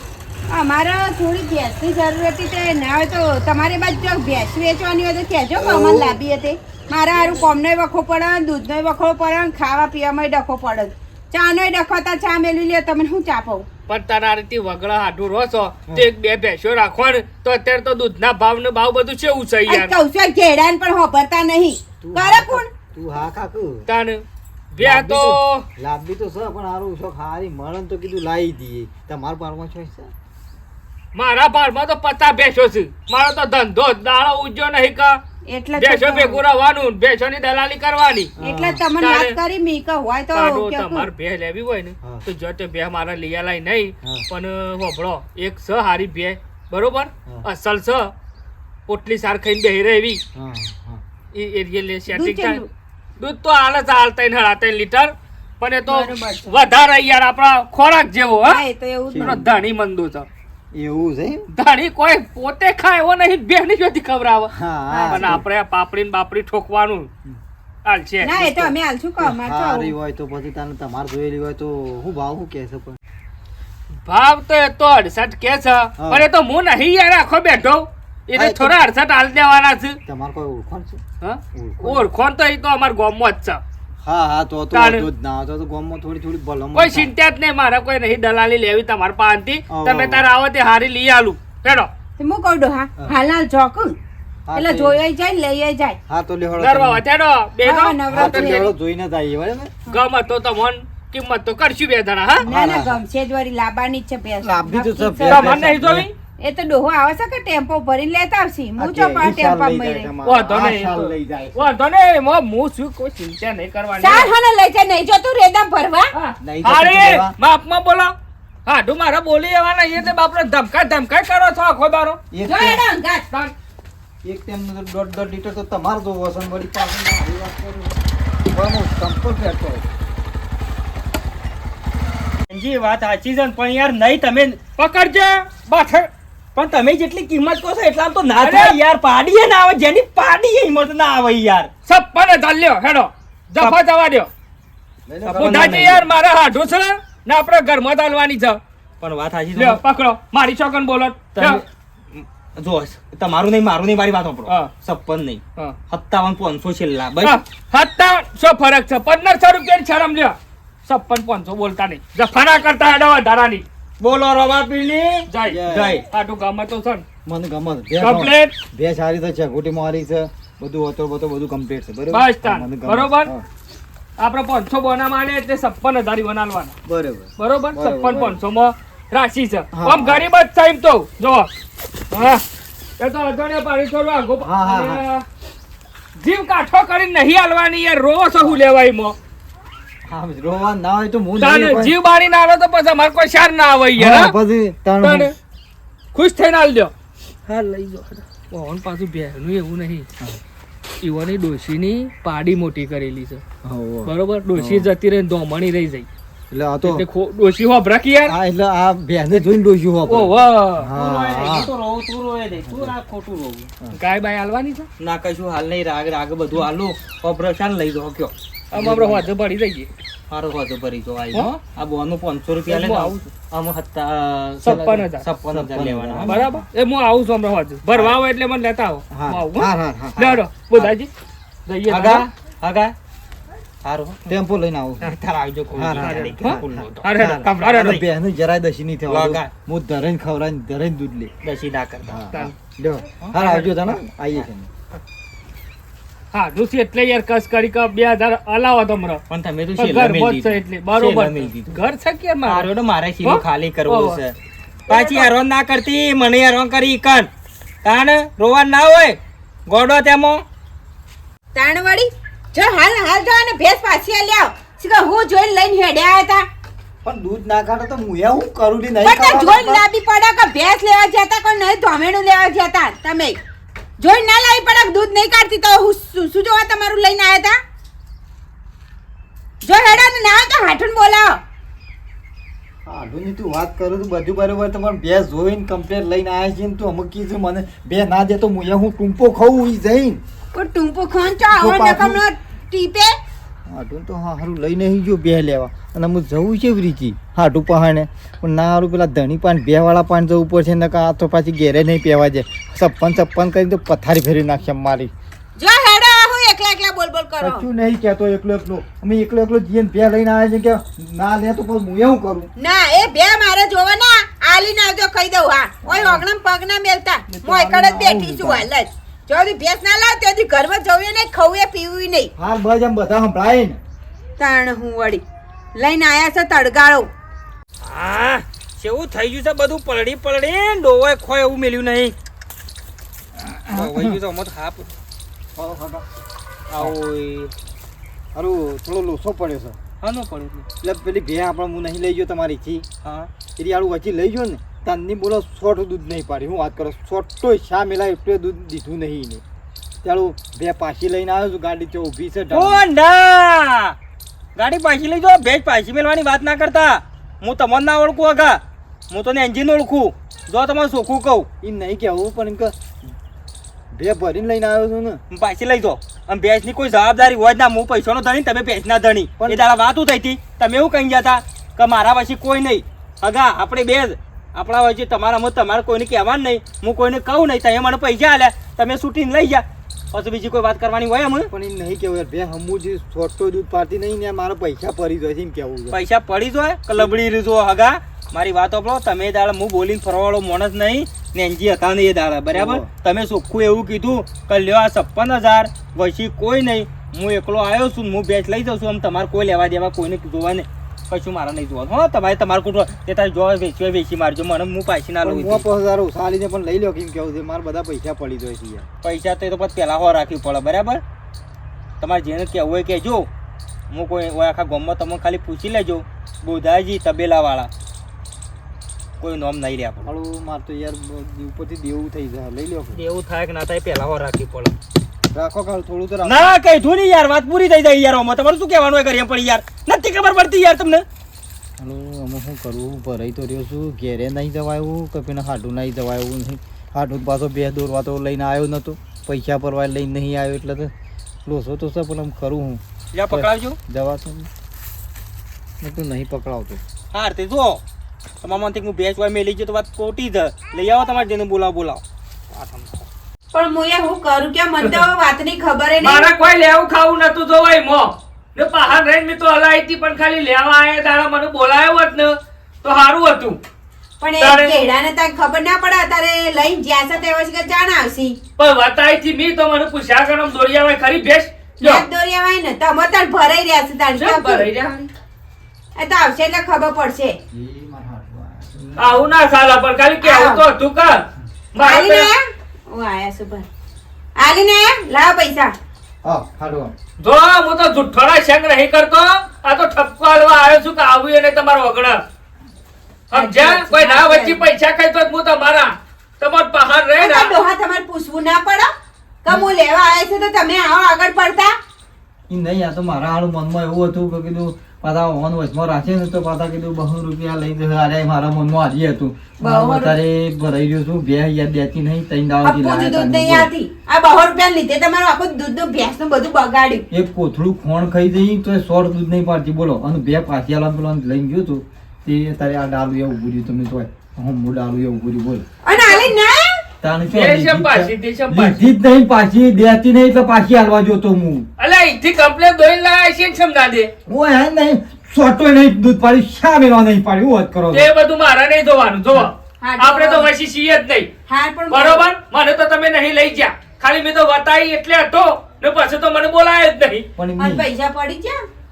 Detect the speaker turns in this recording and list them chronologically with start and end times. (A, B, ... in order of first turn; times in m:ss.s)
0:00.5-0:13.7 A
0:05.6-0:06.2 B
0:13.9-0:19.9 C
0:19.7-0:22.7 A
0:22.0-0:23.9 B
0:23.9-0:25.6 C
0:24.8-0:30.1 B
0:31.1-0:35.2 C
0:35.5-0:36.4 A
0:35.8-0:38.3 C
0:38.4-0:38.8 B
0:38.4-0:41.1 A
0:39.0-0:39.4 C
0:40.3-0:48.1 C
0:48.9-0:50.2 C
0:50.3-0:51.0 B
0:51.3-0:52.6 C
0:52.1-0:52.7 A
0:53.2-0:58.6 C
0:55.9-0:56.6 A
0:58.4-0:59.4 A
0:59.1-0:59.5 B
0:59.2-1:00.3 C
1:00.7-1:01.5 B
1:01.5-1:04.5 C
1:04.5-1:05.4 B
1:04.9-1:05.4 A
1:05.1-1:07.1 C
1:07.8-1:08.7 C
1:08.2-1:09.9 A
1:09.2-1:13.0 B
1:14.0-1:20.0 C
1:16.0-1:16.3 B
1:18.3-1:18.8 B
1:20.0-1:21.0 B
1:21.2-1:23.6 C
1:21.5-1:22.1 B
1:24.0-1:27.1 B
1:24.7-1:25.1 C
1:26.7-1:31.9 C
1:29.7-1:30.2 B
1:32.2-1:34.0 A
1:34.5-1:35.0 B
1:34.6-1:36.0 A
1:36.1-1:37.0 B
1:36.6-1:38.7 C
1:37.6-1:38.7 A
1:38.1-1:39.7 B
1:39.9-1:42.4 C
1:42.4-1:43.0 B
1:42.4-1:45.6 A
1:44.4-1:46.1 B
1:45.3-1:46.1 C
1:46.4-1:50.1 A
1:48.8-1:51.6 B
1:50.2-1:54.3 C
1:54.0-1:56.1 A
1:56.1-1:58.1 C
1:56.4-1:57.3 B
1:58.7-2:02.2 C
2:02.3-2:02.8 B
2:02.4-2:03.3 A
2:04.2-2:08.0 B
2:08.5-2:09.8 B
2:12.5-2:14.6 D
2:14.8-2:16.1 C
2:16.6-2:21.7 D
2:18.4-2:18.8 C
2:21.9-2:24.3 C
2:25.1-2:26.1 B
2:25.3-2:25.8 D
2:25.3-2:28.6 C
2:29.0-2:29.8 D
2:29.6-2:31.6 C
2:31.3-2:37.4 D
2:37.2-2:40.4 C
2:40.9-2:43.6 C
2:44.0-2:46.0 D
2:45.3-2:47.0 C
2:45.4-2:46.0 B
2:47.2-2:53.4 B
2:48.0-2:48.6 C
2:52.1-2:53.3 C
2:54.2-2:56.7 C
2:56.8-2:58.4 B
2:57.4-3:01.5 C
2:59.7-3:00.2 B
3:02.1-3:02.4 C
3:03.0-3:05.2 C
3:04.4-3:05.0 B
3:06.2-3:09.2 C
3:10.1-3:12.0 B
3:11.4-3:14.3 C
3:14.0-3:15.3 B
3:15.0-3:15.3 C
3:16.1-3:16.9 C
3:17.5-3:18.2 D
3:18.5-3:20.1 C
3:21.0-3:23.4 C
3:23.6-3:24.9 B
3:24.1-3:26.1 C
3:26.5-3:27.1 B
3:26.8-3:28.3 C
3:28.2-3:31.7 B
3:30.1-3:30.9 C
3:31.0-3:33.7 D
3:32.7-3:32.9 B
3:33.9-3:34.9 C
3:35.0-3:38.3 D
3:38.7-3:39.9 C
3:38.7-3:39.3 B
3:40.3-3:46.5 D
3:42.7-3:43.2 C
3:44.6-3:45.2 C
3:44.7-3:46.6 B
3:46.2-3:51.1 C
3:49.1-3:50.4 B
3:51.7-3:52.3 C
3:51.9-3:52.9 D
3:53.8-3:54.4 D
3:54.3-3:55.2 B
3:55.0-3:58.0 D
3:55.7-4:01.3 B
3:56.0-3:57.9 C
3:59.1-3:59.5 D
4:01.4-4:02.2 D
4:02.1-4:04.7 B
4:03.2-4:04.5 D
4:06.3-4:09.2 C
4:09.3-4:11.8 D
4:09.8-4:12.7 C
4:12.4-4:14.3 D
4:13.2-4:14.2 C
4:14.9-4:17.3 D
4:14.9-4:15.3 C
4:17.8-4:20.4 D
4:21.5-4:26.4 A
4:27.0-4:29.8 B
4:29.0-4:33.4 A
4:34.0-4:37.6 A
4:39.6-4:41.4 A
4:42.8-4:50.2 B
4:50.5-4:53.1 A
4:51.5-4:52.2 B
4:53.7-5:05.1 B
5:05.6-5:07.7 A
5:07.4-5:12.5 B
5:12.6-5:22.3 A
5:15.8-5:16.2 B
5:17.3-5:18.7 B
5:22.4-5:23.8 B
5:24.4-5:25.2 A
5:25.8-5:27.1 A
5:27.8-5:32.1 D
5:33.4-5:34.2 B
5:33.7-5:34.9 D
5:35.6-5:36.0 B
5:36.7-5:37.5 D
5:38.3-5:39.8 B
5:40.0-5:40.7 D
5:40.8-5:42.8 B
5:43.0-5:43.3 D
5:43.6-5:49.4 B
5:50.0-5:52.8 B
5:52.5-5:53.9 D
5:54.6-6:01.5 D
6:01.6-6:02.7 B
6:03.9-6:05.2 B
6:05.3-6:21.5 D
6:09.4-6:09.6 B
6:21.5-6:26.0 B
6:25.9-6:45.7 D
6:32.5-6:32.9 B
6:45.2-6:48.8 B
6:49.0-6:51.0 D
6:52.0-6:53.3 D
6:53.9-6:57.7 D
6:59.2-7:00.1 D
7:00.0-7:03.0 B
7:02.9-7:04.7 D
7:05.3-7:06.6 B
7:06.2-7:11.0 D
7:11.8-7:20.9 B
7:21.4-7:24.5 B
7:23.1-7:23.8 D
7:25.8-7:26.8 B
7:27.1-7:27.8 D
7:28.4-7:33.1 D
7:33.5-7:36.3 A
7:36.0-7:43.6 C
7:44.2-7:48.4 A
7:44.4-7:44.8 C
7:48.6-7:52.0 C
7:51.8-7:54.7 A
7:54.2-7:55.1 C
7:56.0-7:57.4 A
7:57.5-7:59.3 B
7:59.0-8:01.2 C
8:00.2-8:00.6 A
8:01.7-8:02.3 C
8:01.8-8:03.7 A
8:04.4-8:05.7 A
8:06.2-8:06.9 B
8:07.2-8:12.2 C
8:13.3-8:17.6 C
8:13.3-8:14.6 A
8:17.2-8:18.9 A
8:19.4-8:21.7 A
8:22.5-8:33.7 B
8:29.6-8:30.2 A
8:32.6-8:37.0 A
8:37.1-8:45.6 B
8:45.8-8:46.6 A
8:45.9-8:46.3 C
8:47.0-8:51.6 B
8:47.3-8:48.9 C
8:51.8-8:54.1 C
8:54.2-8:58.1 B
8:57.9-9:01.3 C
8:59.8-9:00.5 A
9:01.5-9:02.2 A
9:01.9-9:07.3 C
9:07.4-9:07.8 B
9:07.6-9:08.6 A